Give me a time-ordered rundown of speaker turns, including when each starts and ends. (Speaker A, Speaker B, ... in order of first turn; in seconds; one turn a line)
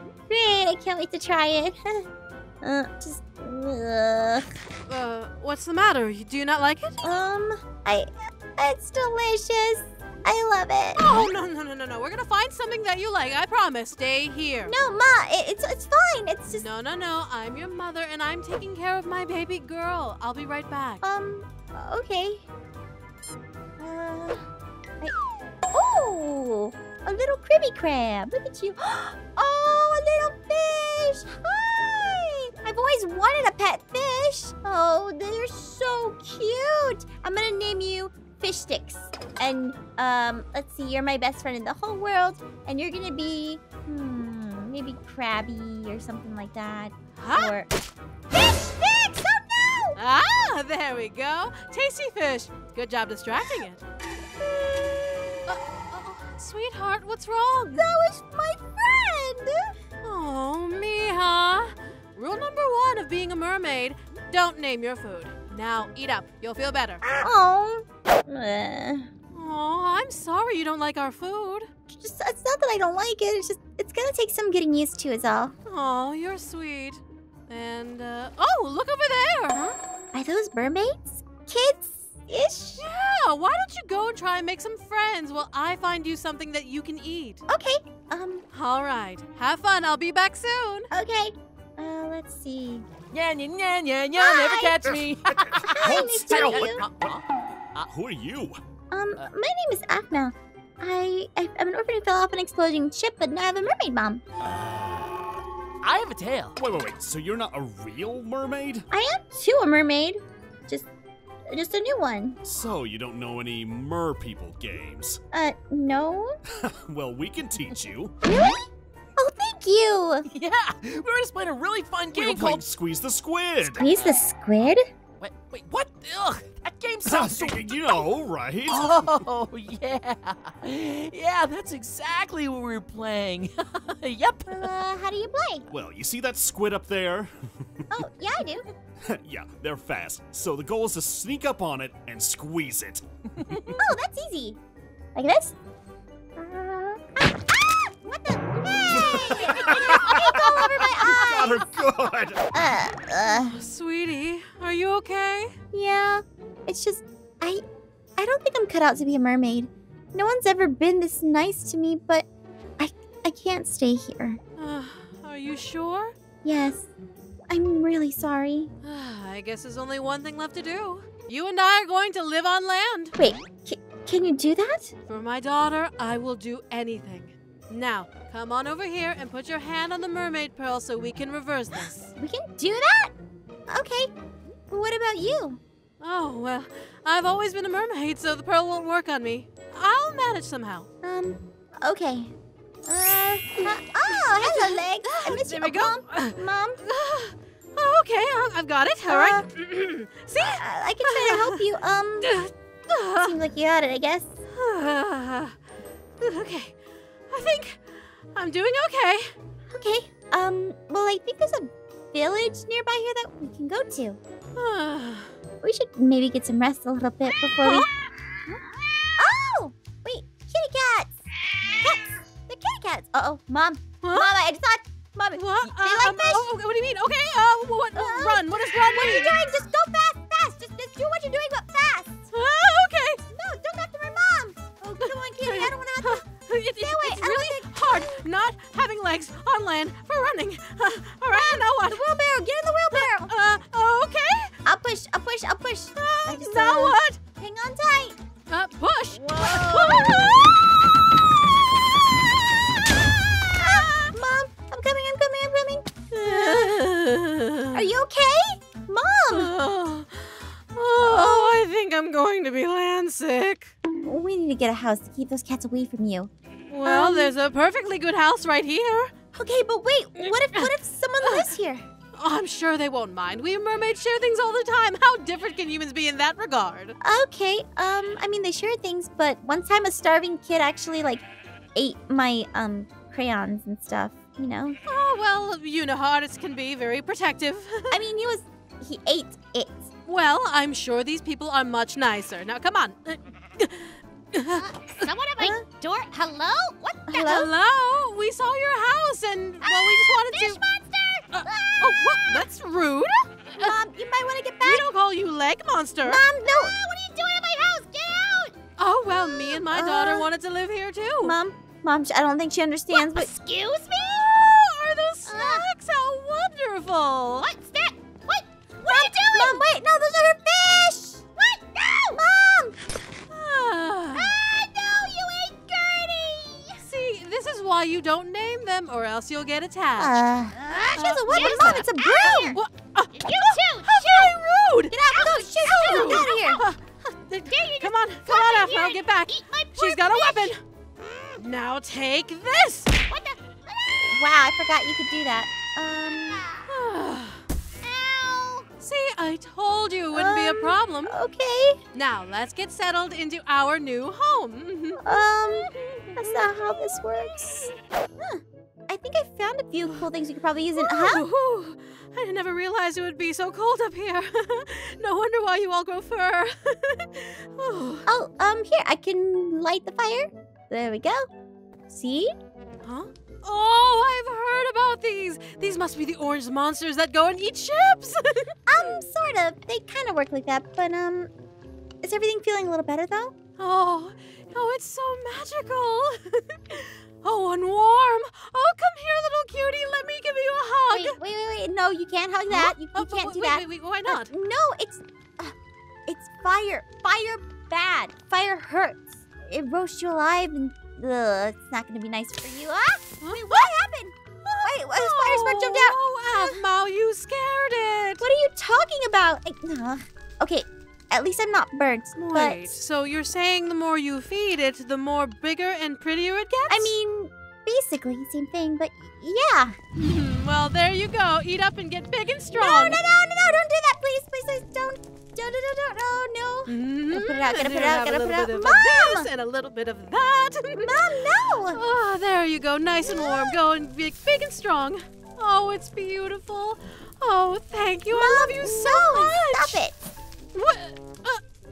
Speaker A: 0.3-2.0
Speaker A: 2.6-4.5
Speaker B: 4.9-7.0
Speaker A: 7.0-11.0
Speaker B: 10.9-14.7
Speaker A: 14.7-16.6
Speaker B: 16.5-21.0
Speaker A: 21.0-22.4
Speaker A: 23.8-24.5
Speaker A: 25.7-47.7
Speaker B: 47.2-47.6
Speaker A: 48.3-50.0
Speaker B: 50.0-53.8
Speaker B: 55.5-57.9
Speaker A: 57.8-59.7
Speaker B: 60.0-67.0
Speaker A: 67.1-69.1
Speaker B: 69.3-71.7
Speaker A: 71.9-75.5
Speaker B: 75.7-79.6
Speaker A: 79.5-82.8
Speaker B: 82.8-87.4
Speaker A: 87.5-88.4
Speaker B: 88.5-90.9
Speaker A: 90.9-92.9
Speaker C: 93.1-97.9
Speaker A: 94.2-94.9
Speaker D: 94.9-96.9
Speaker A: 95.8-96.8
Speaker D: 97.8-98.6
Speaker A: 98.9-104.2
Speaker D: 104.4-105.4
Speaker C: 105.8-106.6
Speaker D: 106.5-108.9
Speaker A: 108.9-110.9
Speaker A: 111.5-112.4
Speaker D: 112.4-115.2
Speaker A: 115.3-116.3
Speaker D: 116.6-118.1
Speaker A: 118.2-118.6
Speaker A: 119.2-120.3
Speaker C: 120.3-122.6
Speaker D: 122.1-123.9
Speaker A: 123.7-124.8
Speaker C: 123.9-124.2
Speaker C: 125.2-128.0
Speaker D: 127.0-129.1
Speaker C: 128.7-134.8
Speaker A: 134.5-135.7
Speaker D: 135.7-138.0
Speaker A: 137.9-138.6
Speaker D: 139.1-143.8
Speaker A: 143.8-144.6
Speaker A: 145.1-145.6
Speaker A: 146.4-151.7
Speaker D: 148.9-152.4
Speaker A: 152.5-153.6
Speaker B: 153.2-155.5
Speaker A: 155.7-157.6
Speaker A: 158.2-162.2
Speaker A: 162.8-164.4
Speaker B: 164.6-166.1
Speaker A: 166.4-166.9
Speaker A: 167.5-168.7
Speaker B: 168.8-173.1
Speaker A: 173.2-174.9
Speaker B: 175.1-182.1
Speaker A: 182.2-183.1
Speaker A: 183.7-184.1
Speaker A: 184.7-185.6
Speaker B: 186.0-190.9
Speaker A: 191.0-192.3
Speaker A: 192.9-196.8
Speaker B: 194.1-201.6
Speaker A: 199.1-199.5
Speaker A: 200.4-202.3
Speaker B: 202.2-203.4
Speaker A: 203.2-204.3
Speaker B: 204.5-205.5
Speaker B: 206.2-206.8
Speaker B: 207.3-209.3
Speaker A: 209.7-214.2
Speaker B: 214.6-215.3
Speaker A: 215.6-217.9
Speaker B: 217.6-217.9
Speaker A: 219.2-221.2
Speaker A: 221.8-226.5
Speaker B: 224.0-224.4
Speaker B: 225.3-229.4
Speaker A: 227.9-232.2
Speaker B: 232.3-233.2
Speaker A: 233.2-236.2
Speaker B: 235.0-242.0
Speaker A: 236.8-238.0
Speaker A: 241.3-243.3
Speaker B: 242.9-244.5
Speaker A: 244.6-248.2
Speaker B: 246.0-247.2
Speaker B: 248.5-250.6
Speaker A: 249.3-250.5
Speaker B: 253.6-254.1
Speaker A: 253.8-256.7
Speaker B: 256.1-257.8
Speaker A: 257.7-259.5
Speaker B: 259.3-263.7
Speaker A: 261.0-261.6
Speaker A: 264.0-266.3
Speaker B: 266.7-269.1
Speaker A: 266.8-267.3
Speaker A: 269.4-271.9
Speaker B: 270.2-270.7
Speaker B: 271.2-271.5
Speaker B: 272.1-276.9
Speaker A: 277.0-281.2
Speaker A: 281.8-284.8
Speaker B: 284.9-287.9
Speaker A: 287.9-289.9
Speaker B: 290.1-294.6
Speaker E: 294.5-297.3
Speaker A: 295.4-295.6
Speaker A: 297.1-297.5
Speaker B: 297.2-300.6
Speaker E: 299.6-301.9
Speaker B: 301.3-303.8
Speaker A: 303.6-304.9
Speaker B: 304.6-306.2
Speaker A: 306.0-306.8
Speaker E: 306.4-308.5
Speaker B: 308.8-311.4
Speaker A: 309.1-310.3
Speaker A: 311.2-313.3
Speaker E: 312.9-314.3
Speaker B: 314.0-317.5
Speaker E: 315.2-315.6
Speaker E: 317.4-319.6
Speaker A: 318.9-321.2
Speaker E: 321.4-322.2
Speaker A: 322.1-322.8
Speaker B: 323.3-324.4
Speaker E: 324.4-326.7
Speaker A: 324.8-326.2
Speaker B: 326.8-330.2
Speaker A: 330.0-332.6
Speaker E: 330.6-332.6
Speaker B: 330.9-340.6
Speaker E: 333.1-334.4
Speaker A: 334.9-336.6
Speaker E: 335.1-336.6
Speaker E: 337.5-340.5
Speaker B: 341.4-342.9
Speaker E: 343.1-344.0
Speaker A: 344.0-346.4
Speaker B: 346.7-347.4
Speaker E: 347.8-348.7
Speaker B: 348.8-351.1
Speaker A: 350.1-351.8
Speaker B: 351.9-355.0
Speaker A: 355.0-361.2
Speaker B: 355.7-356.9
Speaker B: 360.8-368.1
Speaker A: 368.1-371.3
Speaker A: 371.9-372.3
Speaker B: 372.8-379.0
Speaker A: 378.7-381.3
Speaker A: 382.0-383.3
Speaker B: 383.6-391.1
Speaker A: 390.9-395.5
Speaker B: 392.5-394.3
Speaker A: 396.1-406.6
Speaker B: 403.2-403.7
Speaker B: 404.4-408.2
Speaker A: 408.2-412.8
Speaker B: 412.1-416.9
Speaker A: 416.7-419.8
Speaker B: 420.0-423.0
Speaker A: 422.5-429.3
Speaker B: 426.7-431.0
Speaker A: 430.8-431.8
Speaker B: 431.7-439.8
Speaker A: 433.0-433.4
Speaker A: 438.1-440.1
Speaker B: 440.5-441.4